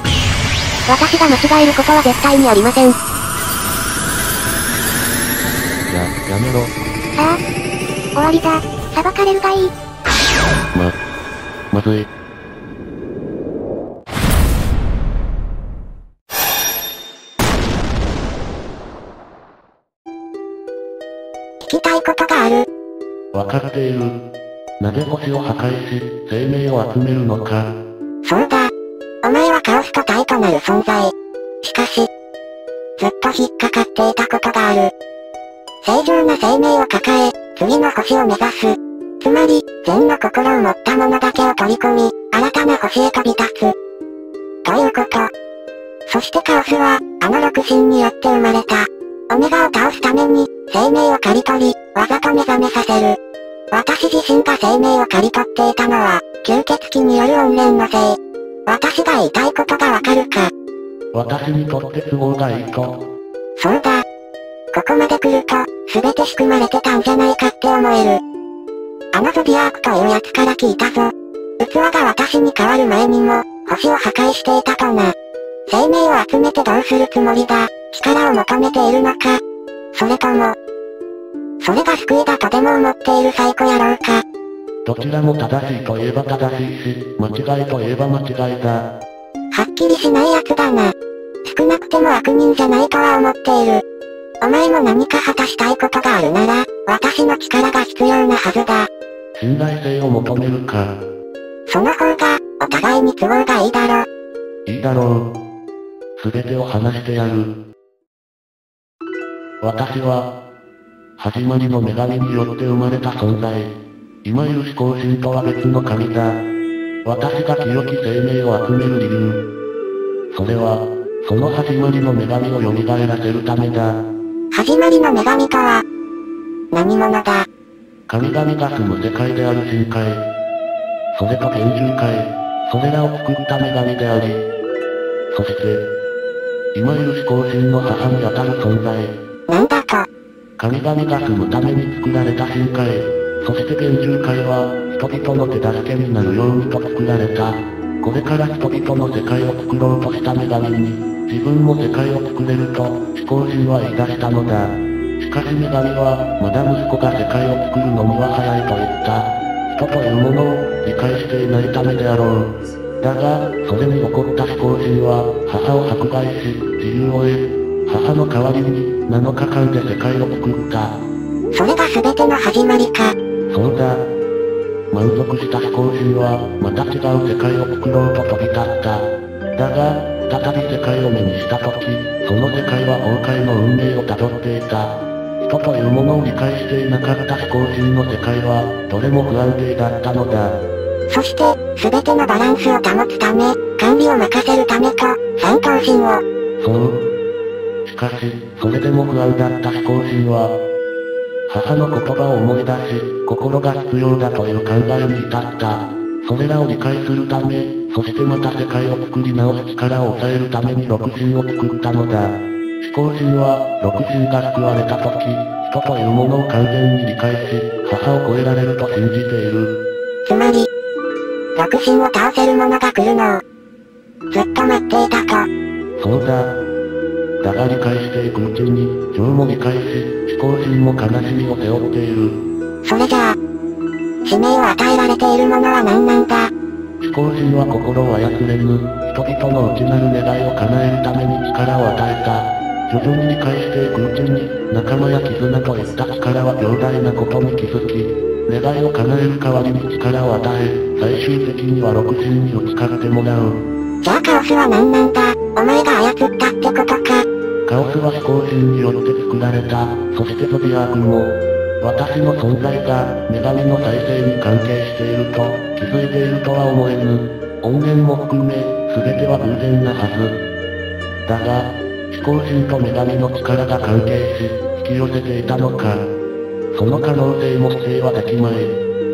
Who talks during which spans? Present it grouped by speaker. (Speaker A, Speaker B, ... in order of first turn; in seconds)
Speaker A: 0.9-3.0, 8.2-9.7
Speaker B: 5.9-6.7, 11.7-12.1, 23.3-24.2, 24.8-27.8, 61.1-63.1, 84.9-88.9, 99.4-101.0, 104.7-105.3, 106.2-107.6, 109.6-110.3, 111.2-113.7, 114.2-116.3, 117.0-119.4, 120.3-124.0, 128.1-130.3, 131.2-134.4, 135.3-135.9, 136.8-139.2, 140.6-170.9, 173.5-174.0, 174.9-190.6, 196.6-197.0, 197.9-200.5, 201.5-219.8, 226.0-226.5, 227.4-232.3, 237.0-253.6, 257.7-270.4, 271.3-276.0, 276.8-278.7
Speaker C: 21.6-22.7, 28.2-28.7, 29.2-32.1, 33.0-34.9, 35.8-43.8, 44.6-45.3, 46.1-53.2, 53.7-60.5, 63.6-64.0, 64.7-68.2, 69.1-75.2, 75.7-79.4, 79.9-80.6, 81.6-84.2, 89.5-93.8, 94.4-98.9, 101.7-104.1, 124.5-125.8, 126.7-127.5, 139.5-140.1, 171.5-173.1, 191.1-196.2, 220.3-220.7, 221.6-223.4, 224.3-225.5, 232.8-233.4, 234.3-236.5, 254.0-257.2